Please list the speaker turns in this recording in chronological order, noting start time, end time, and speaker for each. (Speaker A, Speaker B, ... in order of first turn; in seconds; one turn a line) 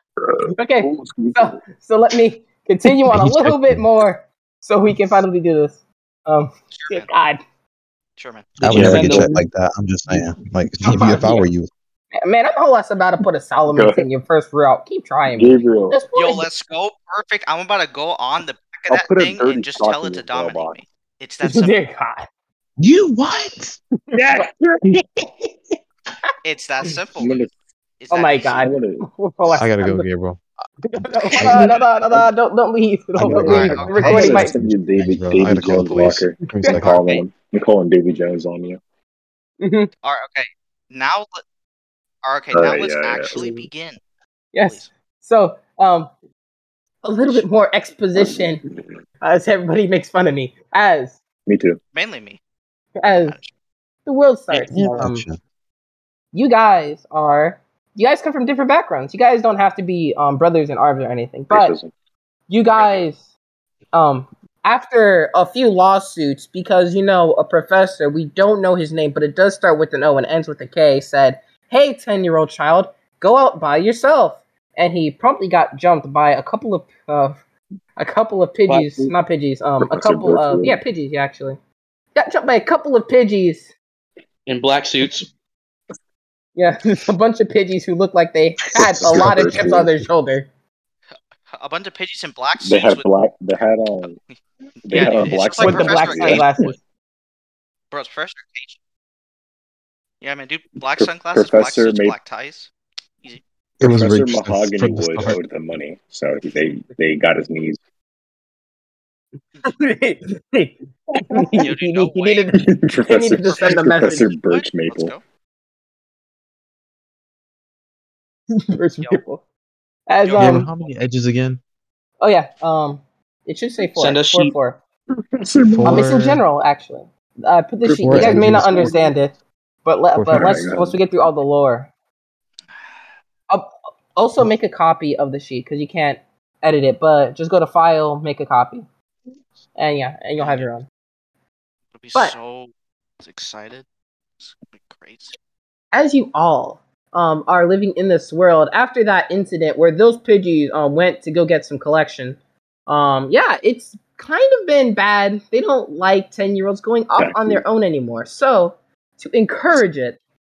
Speaker A: 0.6-7.4
Speaker B: 0.8-1.6
Speaker C: 3.0-3.9
Speaker D: 6.7-7.1
Speaker D: 8.2-8.6
Speaker C: 8.6-11.7
Speaker A: 8.6-9.4
Speaker B: 8.7-9.4
Speaker A: 10.8-11.5
Speaker A: 12.1-16.5
Speaker B: 13.7-14.1
Speaker B: 15.3-16.0
Speaker D: 16.1-21.8
Speaker B: 18.9-20.8
Speaker A: 21.4-22.3
Speaker C: 22.8-23.8
Speaker A: 24.1-24.4
Speaker E: 24.1-24.8
Speaker D: 26.4-27.5
Speaker B: 27.1-27.5
Speaker D: 28.0-28.7
Speaker A: 28.1-30.1
Speaker B: 28.4-29.1
Speaker C: 29.5-30.4
Speaker A: 30.9-34.6
Speaker C: 30.9-31.7
Speaker C: 33.1-37.1
Speaker B: 33.3-38.8
Speaker D: 33.4-34.2
Speaker D: 36.8-37.2
Speaker A: 39.6-39.9
Speaker D: 40.0-41.4
Speaker D: 42.2-44.0
Speaker B: 42.5-43.4
Speaker A: 44.5-46.1
Speaker D: 44.6-44.9
Speaker A: 47.0-48.6
Speaker B: 48.1-48.9
Speaker A: 49.2-51.2
Speaker B: 51.5-51.8
Speaker D: 51.9-52.4
Speaker A: 53.0-53.4
Speaker D: 53.1-53.5
Speaker A: 54.1-55.3
Speaker E: 54.5-55.1
Speaker C: 54.9-55.4
Speaker A: 56.3-61.8
Speaker B: 61.5-61.9
Speaker A: 62.5-63.3
Speaker D: 62.7-63.1
Speaker A: 63.9-77.4
Speaker A: 78.0-81.6
Speaker E: 78.7-79.1
Speaker B: 79.8-80.8
Speaker A: 82.1-83.7
Speaker E: 84.5-85.3
Speaker A: 86.6-90.5
Speaker B: 88.8-89.9
Speaker C: 89.0-89.6
Speaker D: 91.5-93.1
Speaker B: 92.6-94.2
Speaker B: 94.9-96.5
Speaker D: 94.9-96.8
Speaker A: 95.6-96.8
Speaker D: 97.9-98.8
Speaker D: 100.2-102.7
Speaker B: 100.9-102.2
Speaker C: 103.8-105.4
Speaker B: 103.8-107.8
Speaker A: 109.6-114.3
Speaker D: 111.6-112.5
Speaker B: 112.5-115.1
Speaker D: 113.5-115.2
Speaker A: 118.5-119.4
Speaker A: 120.1-120.7
Speaker D: 120.2-121.0
Speaker C: 120.4-121.6
Speaker A: 122.2-124.8
Speaker E: 124.0-124.5
Speaker B: 125.3-126.1
Speaker C: 125.6-126.4
Speaker A: 125.8-129.3
Speaker B: 127.8-129.1
Speaker C: 127.9-128.9
Speaker A: 129.8-131.9
Speaker C: 130.1-130.6
Speaker B: 130.3-131.0
Speaker A: 133.5-138.8
Speaker A: 139.8-140.9
Speaker D: 140.4-140.7
Speaker D: 141.9-143.8
Speaker D: 144.4-145.4
Speaker A: 145.9-160.2
Speaker B: 157.2-157.6